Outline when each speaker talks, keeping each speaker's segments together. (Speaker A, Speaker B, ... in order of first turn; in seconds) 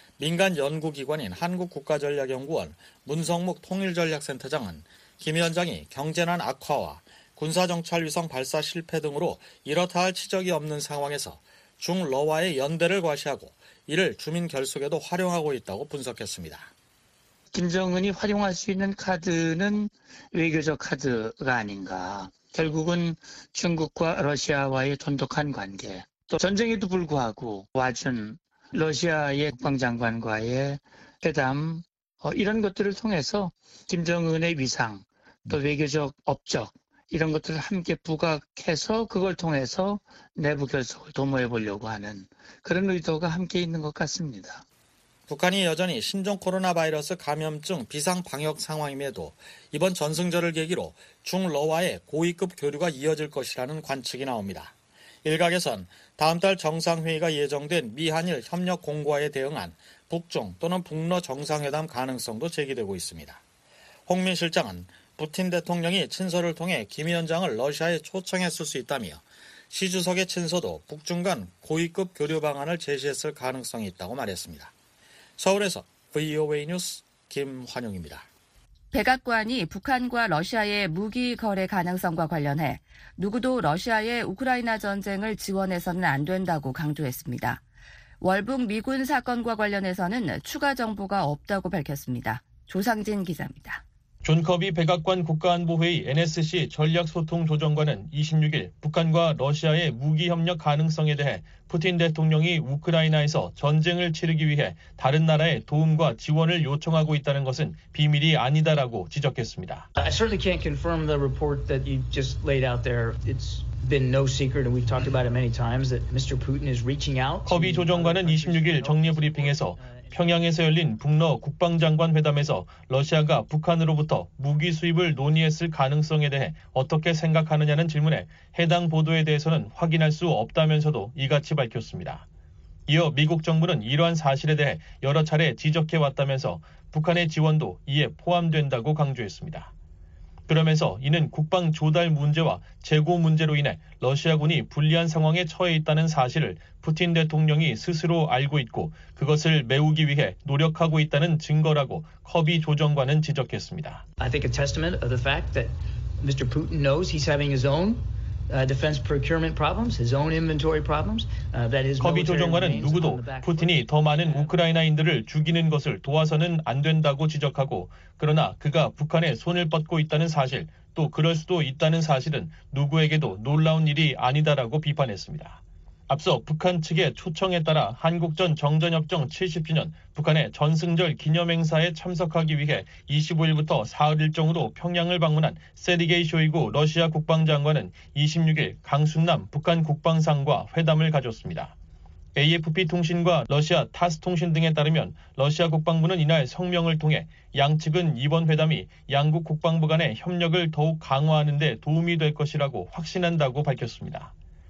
Speaker A: 0.2-16.7, 45.3-63.4, 64.1-74.7, 75.4-78.3
Speaker B: 17.5-44.6
Speaker C: 78.9-87.6, 88.2-93.8
Speaker D: 94.2-109.9, 117.5-132.2, 132.9-139.7, 140.5-154.0, 162.0-191.7, 192.3-204.3
Speaker E: 109.9-120.2, 154.2-164.6